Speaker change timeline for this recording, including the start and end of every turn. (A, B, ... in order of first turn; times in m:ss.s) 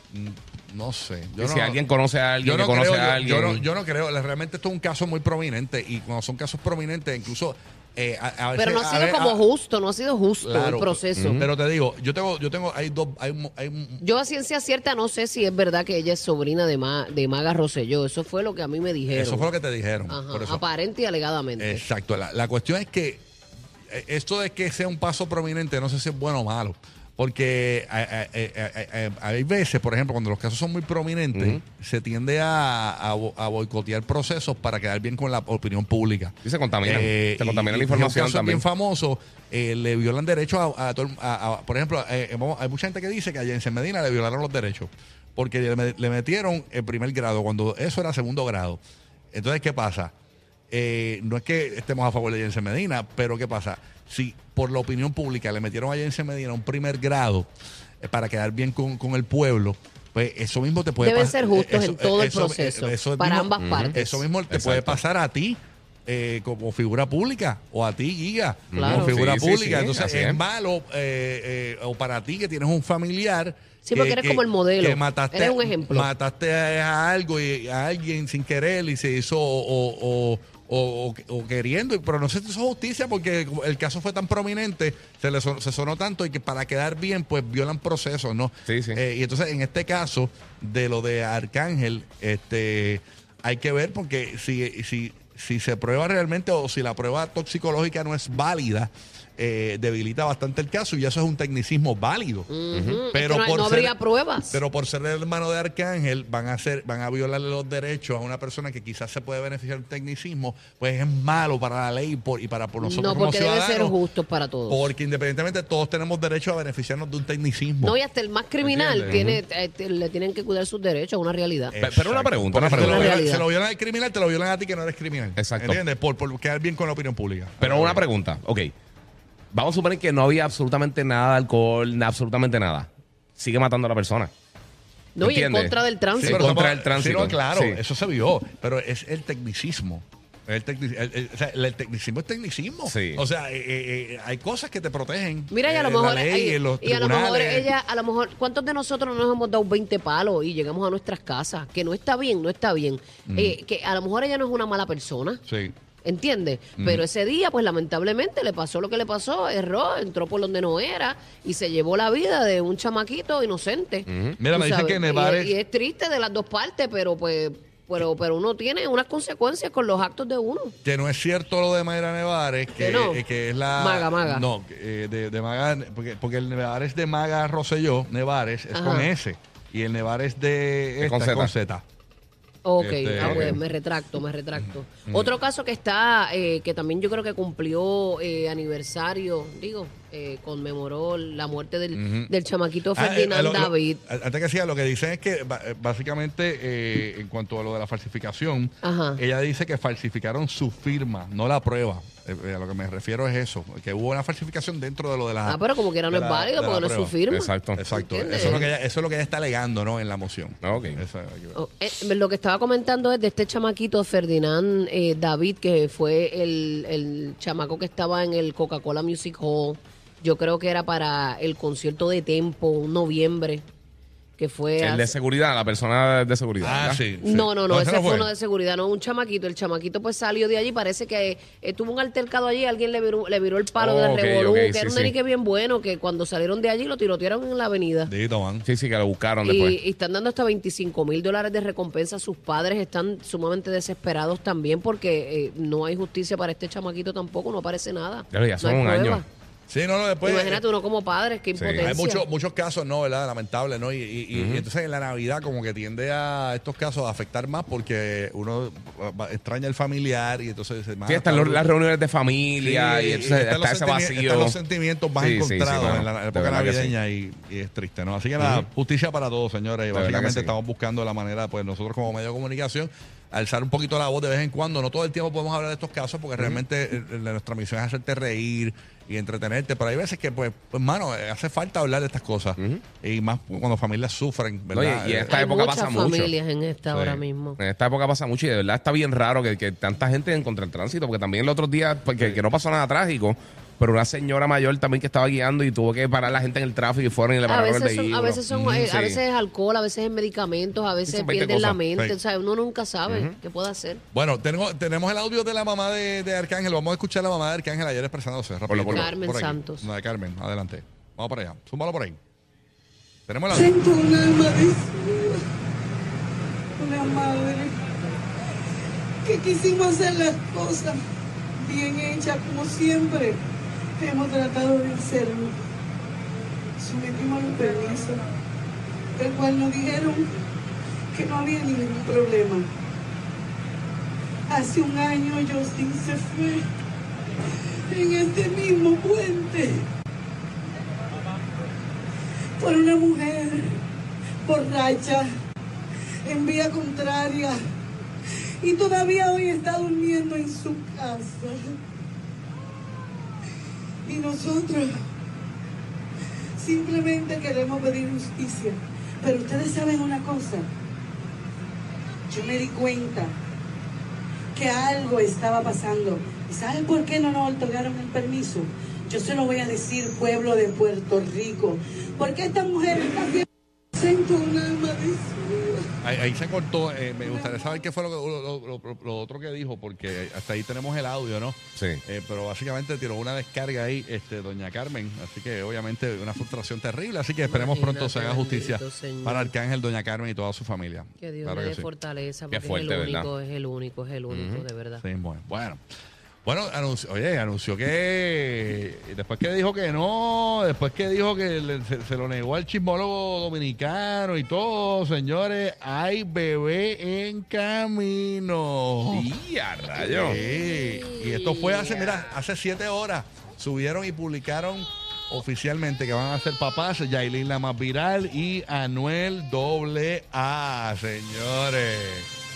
0:00.1-0:01.8 A
0:01.4-0:03.7 B
0:02.4-0:09.4 A
0:08.6-0:11.4 C
0:10.4-0:14.0 A
0:11.2-0:11.5 B
0:14.0-0:19.5 C
0:19.1-0:20.6 A
0:20.1-0:21.8 C
0:21.6-0:23.2 A
0:23.9-0:48.8 A
0:31.3-0:31.6 B
0:36.4-0:38.6 B
0:49.3-0:50.1 A
0:50.7-0:57.5 A
0:58.0-1:42.5 A
1:01.0-1:04.2 C
1:03.6-1:04.0 B
1:04.5-1:05.0 B
1:08.7-1:10.4 B
1:08.8-1:09.2 C
1:13.8-1:16.1 C
1:28.7-1:29.0 B
1:42.5-1:44.6 C
1:42.7-1:43.0 B
1:43.1-1:44.0 A
1:44.5-1:54.0 A
1:52.8-1:54.9 C
1:54.7-1:58.0 A
1:57.8-2:01.8 C
1:58.6-1:59.3 A
1:59.1-1:59.4 B
2:01.7-2:08.0 A
2:01.8-2:03.2 B
2:02.7-2:03.5 C
2:05.4-2:05.8 B
2:07.6-2:08.7 B
2:09.5-2:14.3 B
2:15.2-2:16.5 C
2:15.2-2:17.8 B
2:16.1-2:27.7 A
2:22.9-2:23.2 B
2:25.5-2:35.4 C
2:33.3-2:33.6 A
2:35.5-2:35.7 A
2:36.0-2:50.8 C
2:36.8-2:37.0 A
2:44.1-2:44.4 B
2:44.4-2:45.6 A
2:50.8-3:01.8 A
2:52.8-2:53.2 C
2:53.8-2:54.5 C
2:58.7-2:59.1 C
3:01.0-3:01.5 B
3:02.6-3:14.0 C
3:02.8-3:03.6 A
3:03.2-3:03.6 B
3:04.6-3:05.4 A
3:11.9-3:12.3 A
3:12.9-3:27.2 A
3:18.8-3:19.2 C
3:25.4-3:28.7 C
3:27.3-3:27.8 B
3:27.7-3:31.6 A
3:28.4-3:28.6 B
3:30.6-3:31.0 B
3:31.6-3:43.7 C
3:44.4-3:45.2 C
3:44.8-3:47.0 B
3:46.6-3:48.3 A
3:47.2-3:58.1 C
3:53.8-3:55.1 B
3:58.1-3:58.7 A
3:58.6-3:59.8 B
3:59.4-4:09.3 C
4:08.3-4:09.2 B
4:09.7-4:10.6 A
4:10.2-4:12.2 C
4:11.6-4:12.0 B
4:11.8-4:21.6 A
4:14.3-4:14.7 B
4:21.1-4:24.6 B
4:22.6-4:45.4 A
4:25.2-4:26.9 B
4:28.4-4:28.7 B
4:29.9-4:30.5 B
4:42.6-4:42.8 B
4:44.7-4:46.3 B
4:45.3-4:47.6 C
4:46.9-4:47.2 A
4:47.6-4:59.2 B
4:57.5-5:04.0 C
5:01.1-5:01.8 B
5:01.9-5:02.2 A
5:03.1-5:03.4 B
5:04.1-5:12.2 A
5:08.7-5:09.1 B
5:08.9-5:09.9 C
5:13.3-5:13.7 A
5:13.5-5:15.4 D
5:16.8-5:17.7 D
5:19.3-5:21.0 D
5:21.6-5:23.4 D
5:24.0-5:25.5 D
5:26.8-5:28.2 D
5:29.2-5:30.3 D
5:31.1-5:32.6 D
5:34.5-5:36.6 D
5:37.9-5:39.8 D
5:42.6-5:43.8 D
5:44.5-5:45.2 D
5:46.2-5:47.6 D
5:48.6-5:51.6 D
5:54.1-5:54.9 D
5:56.6-6:00.6 D
6:02.3-6:03.3 D
6:04.6-6:13.4 D
6:14.0-6:15.8 D
6:16.0-6:31.9 A
6:27.5-6:29.5 C
6:31.2-6:35.0 C
6:32.5-6:33.3 B
6:34.3-6:34.6 B
6:35.0-6:35.8 A
6:36.4-6:49.3 A
6:49.1-6:50.4 B
6:50.0-6:52.4 C
6:50.1-7:02.3 A